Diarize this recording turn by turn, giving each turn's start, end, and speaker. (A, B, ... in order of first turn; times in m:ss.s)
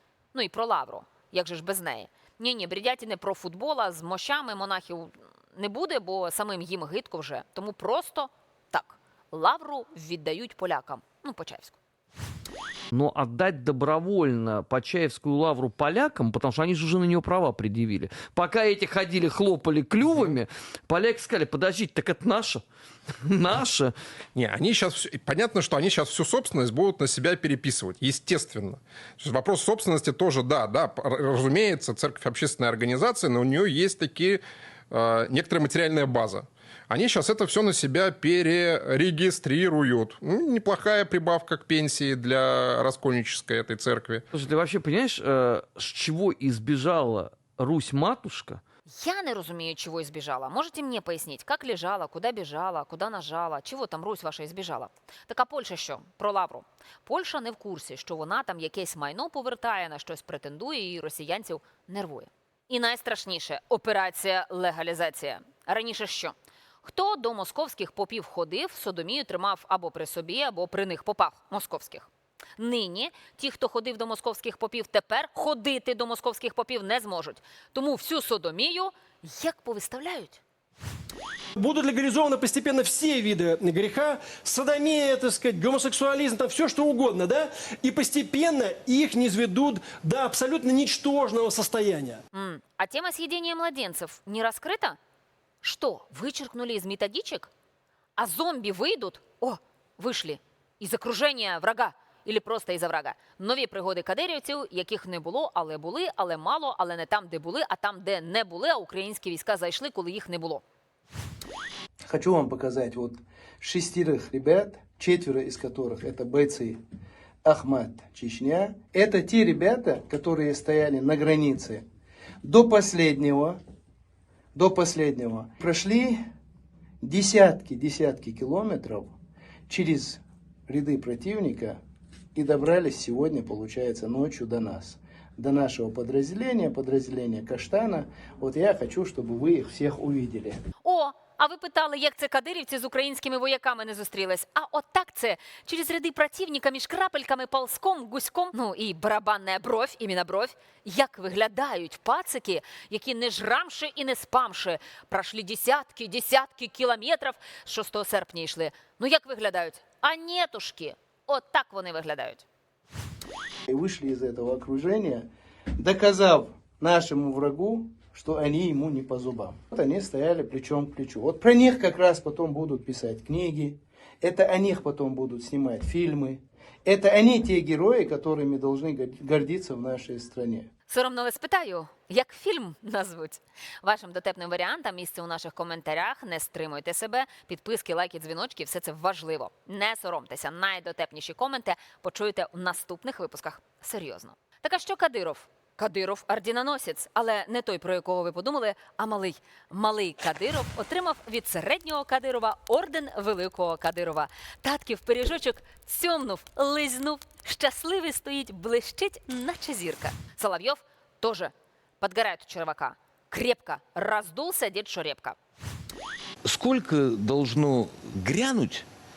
0:00.3-0:11.8 A
0:12.9-0:22.6 B
0:23.2-0:23.9 B
0:24.4-0:44.2 C
0:44.3-0:48.6 B
0:48.9-1:20.4 A
1:21.6-1:32.2 D
1:32.3-1:35.0 A
1:35.6-1:37.5 A
1:38.2-1:50.6 A
1:52.0-1:56.8 E
1:57.4-2:01.8 E
2:02.4-2:03.6 E
2:04.6-2:06.2 E
2:07.0-2:09.2 E
2:09.7-2:11.8 E
2:12.4-2:20.6 E
2:20.8-2:42.4 A
2:43.7-3:00.7 E
3:00.9-3:35.4 A
3:36.4-3:38.9 F